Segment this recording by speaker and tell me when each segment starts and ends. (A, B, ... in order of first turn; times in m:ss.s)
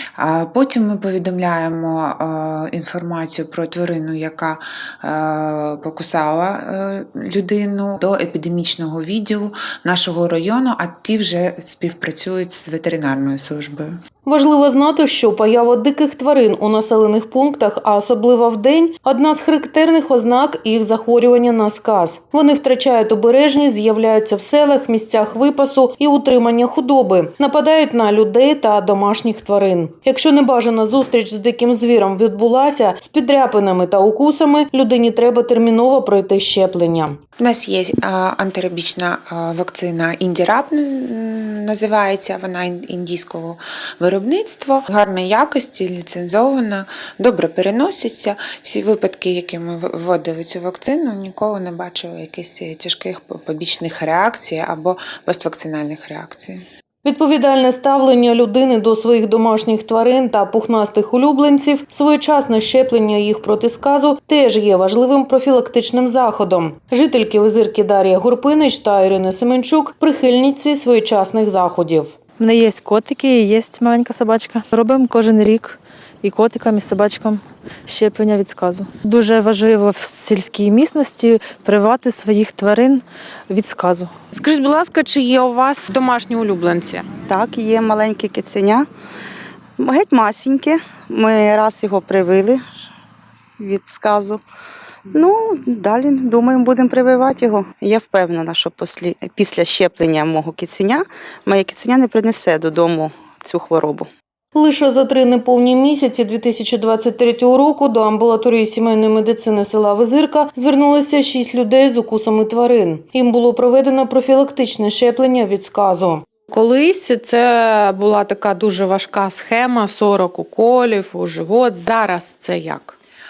0:00.2-0:14.0 A
0:14.3-0:37.2 B
0:37.4-0:56.6 A
0:57.0-1:12.1 B
1:12.4-1:24.1 C
1:24.3-1:27.1 D
1:27.3-1:28.9 E
1:29.8-1:32.6 E
1:33.6-1:34.4 E
1:35.1-1:44.1 E
1:44.5-1:56.3 B
1:56.5-2:03.0 D